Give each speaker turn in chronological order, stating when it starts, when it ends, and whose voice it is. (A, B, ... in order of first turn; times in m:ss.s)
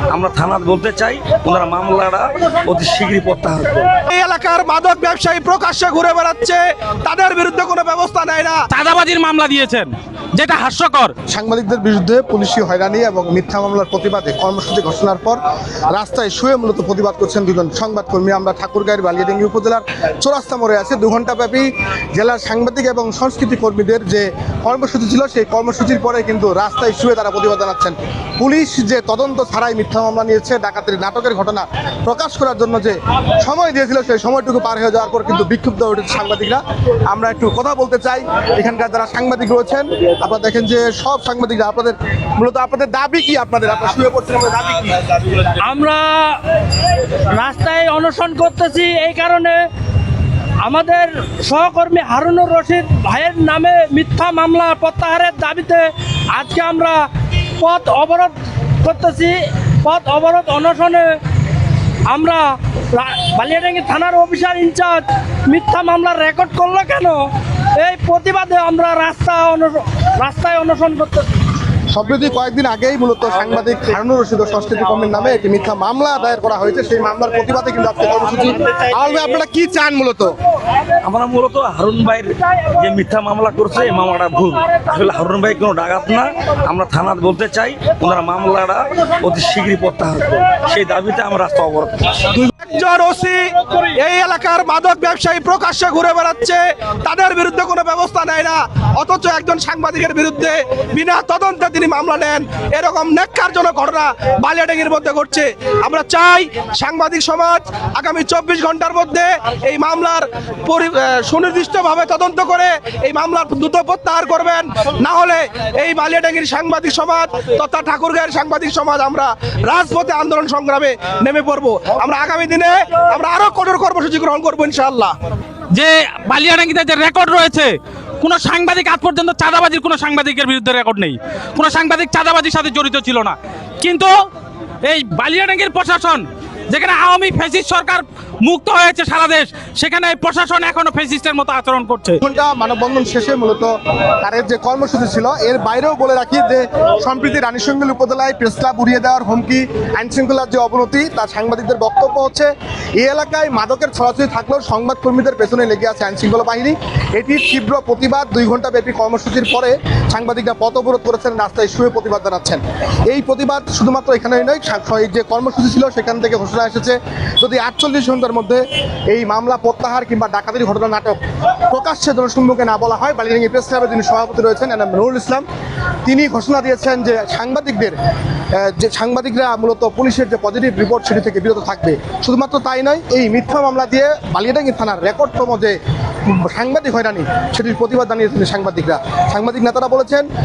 0:00.1-0:03.9 A
0:04.1-0:08.6 B
0:08.7-0:11.1 C
0:11.3-0:15.4 D
0:15.9-0:45.0 D
0:45.6-0:46.4 E
0:47.2-0:49.6 E
0:50.6-0:57.0 E
0:57.6-1:01.2 E
1:02.1-1:07.2 E
1:07.8-1:11.3 E
1:11.9-1:20.3 D
1:21.0-1:32.3 A
1:32.4-1:33.4 B
1:34.0-2:05.2 B
2:05.7-2:14.1 C
2:14.9-2:22.2 C
2:22.2-2:51.2 D
2:51.7-2:55.4 D
2:56.0-2:58.0 D
2:58.6-3:10.2 D